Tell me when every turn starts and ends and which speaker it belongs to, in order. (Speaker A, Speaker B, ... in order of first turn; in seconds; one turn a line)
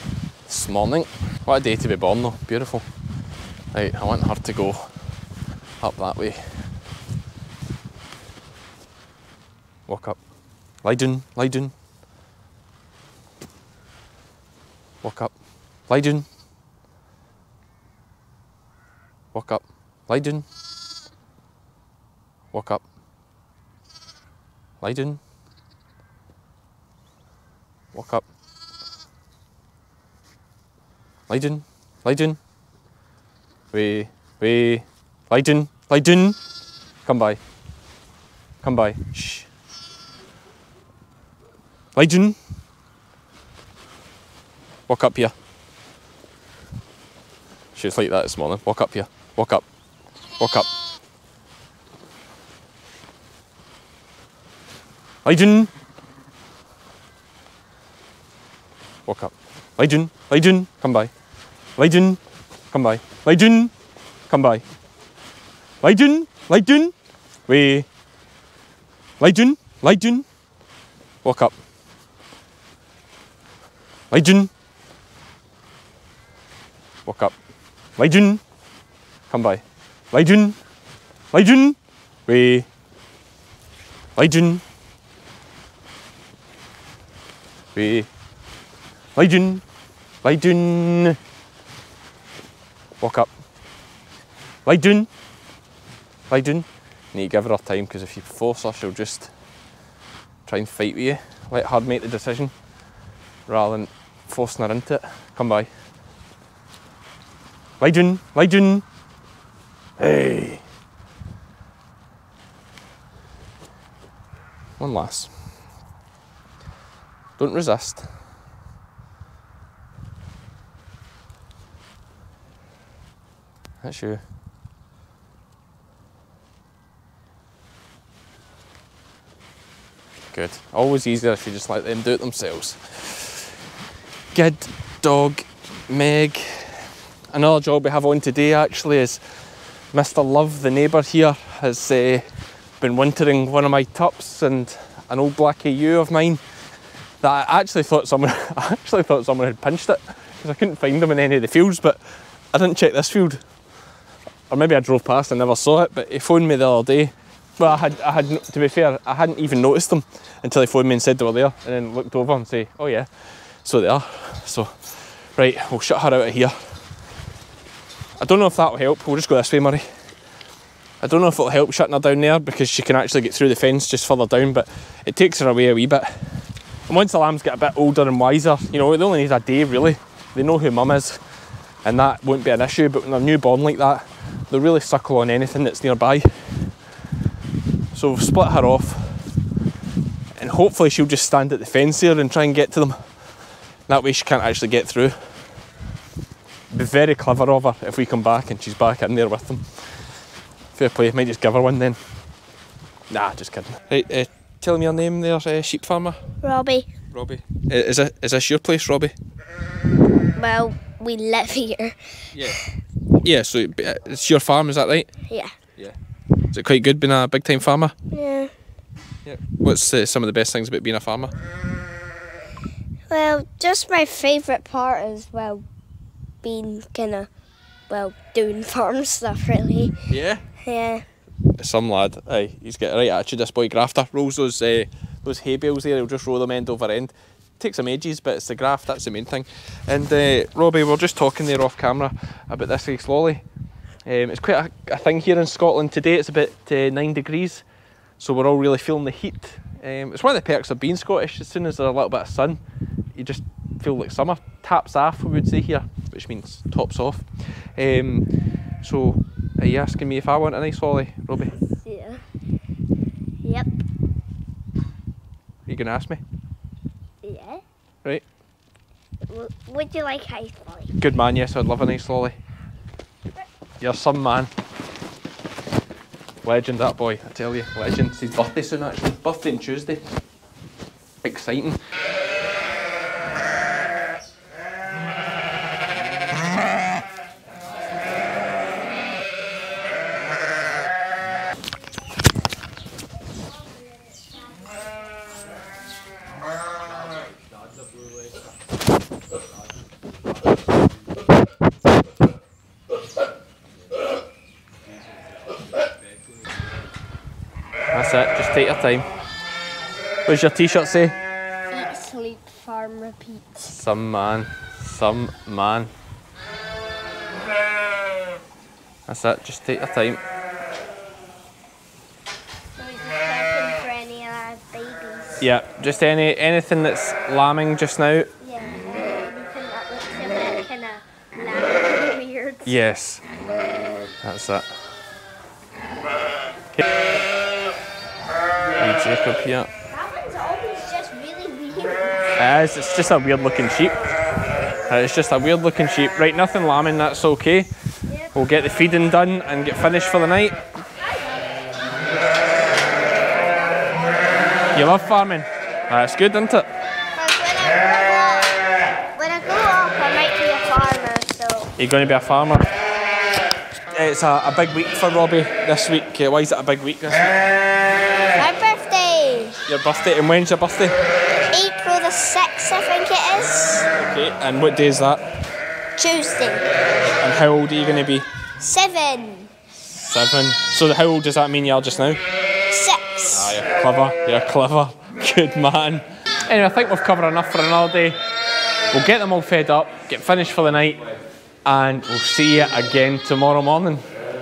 Speaker A: 0.5-2.9
Speaker A: 3.7-4.9
Speaker A: 5.8-6.5
Speaker A: 9.9-10.2
Speaker A: 10.8-11.7
Speaker A: 15.0-15.3
Speaker A: 15.9-16.2
Speaker A: 19.3-20.4
Speaker A: 22.5-22.8
Speaker A: 24.8-25.2
Speaker A: 27.9-28.2
Speaker A: 31.3-32.4
Speaker A: 33.7-36.4
Speaker A: 37.0-37.4
Speaker A: 38.6-39.5
Speaker A: 41.9-42.4
Speaker A: 44.9-45.3
Speaker A: 47.7-49.6
Speaker A: 50.4-50.7
Speaker A: 55.2-55.7
Speaker A: 59.0-61.1
Speaker A: 61.8-62.2
Speaker A: 62.7-63.7
Speaker A: 64.3-64.6
Speaker A: 65.8-66.9
Speaker A: 67.5-67.9
Speaker A: 69.2-70.2
Speaker A: 71.2-71.5
Speaker A: 74.1-74.5
Speaker A: 77.0-77.3
Speaker A: 78.0-78.4
Speaker A: 79.3-80.6
Speaker A: 81.3-82.7
Speaker A: 84.2-84.6
Speaker A: 87.7-88.1
Speaker A: 89.1-89.6
Speaker A: 90.2-91.2
Speaker A: 93.0-93.3
Speaker A: 94.6-95.1
Speaker A: 96.3-99.3
Speaker A: 100.5-102.5
Speaker A: 103.5-105.7
Speaker A: 107.8-108.8
Speaker A: 110.0-110.6
Speaker A: 114.8-115.3
Speaker A: 117.4-118.1
Speaker A: 123.8-124.2
Speaker A: 130.3-133.5
Speaker A: 134.3-139.2
Speaker A: 139.9-142.2
Speaker A: 142.8-146.4
Speaker A: 147.2-152.0
Speaker A: 152.5-153.4
Speaker A: 154.5-163.1
Speaker A: 163.6-164.7
Speaker A: 165.3-166.6
Speaker A: 168.2-169.8
Speaker A: 171.0-181.2
Speaker A: 181.8-186.7
Speaker A: 187.9-189.3
Speaker A: 190.4-193.0
Speaker A: 193.9-195.3
Speaker A: 196.7-199.6
Speaker A: 200.7-202.0
Speaker A: 203.1-206.2
Speaker B: 206.4-206.9
Speaker A: 207.1-209.1
Speaker B: 210.3-212.0
Speaker A: 212.3-212.6
Speaker A: 213.2-215.1
Speaker A: 216.5-217.9
Speaker B: 218.1-218.5
Speaker A: 219.2-221.3
Speaker B: 223.1-225.6
Speaker B: 226.4-227.3
Speaker B: 227.9-229.9
Speaker A: 230.1-230.4
Speaker B: 230.6-231.0
Speaker A: 231.6-243.4
Speaker A: 244.0-247.6
Speaker A: 248.2-252.6
Speaker A: 253.1-258.3
Speaker A: 258.8-261.5
Speaker B: 261.8-262.2
Speaker B: 263.4-263.8
Speaker A: 265.6-266.2
Speaker B: 267.2-267.6
Speaker B: 269.2-270.9
Speaker A: 271.0-272.4
Speaker A: 273.8-274.5
Speaker A: 276.4-280.0
Speaker A: 281.2-281.8
Speaker A: 307.9-309.1
Speaker A: 310.2-311.1
Speaker B: 311.7-313.4
Speaker A: 313.6-315.9
Speaker A: 319.1-320.2
Speaker B: 322.8-325.4
Speaker A: 325.4-328.3
Speaker B: 328.4-332.8
Speaker A: 332.6-333.2
Speaker A: 334.2-334.6
Speaker A: 338.8-339.7
Speaker B: 339.9-342.1
Speaker A: 342.4-344.0
Speaker A: 344.9-347.7
Speaker A: 348.3-350.6
Speaker A: 354.7-356.7
Speaker B: 357.1-358.6
Speaker B: 359.1-361.7
Speaker A: 361.8-362.7
Speaker A: 363.9-367.4
Speaker B: 368.3-369.6
Speaker A: 369.6-370.9
Speaker B: 371.5-373.9
Speaker A: 373.9-375.2
Speaker B: 375.9-376.6
Speaker A: 377.2-378.2
Speaker B: 378.6-379.5
Speaker A: 380.0-382.2
Speaker B: 382.7-383.6
Speaker A: 383.3-388.2
Speaker A: 388.9-391.1
Speaker A: 391.6-394.0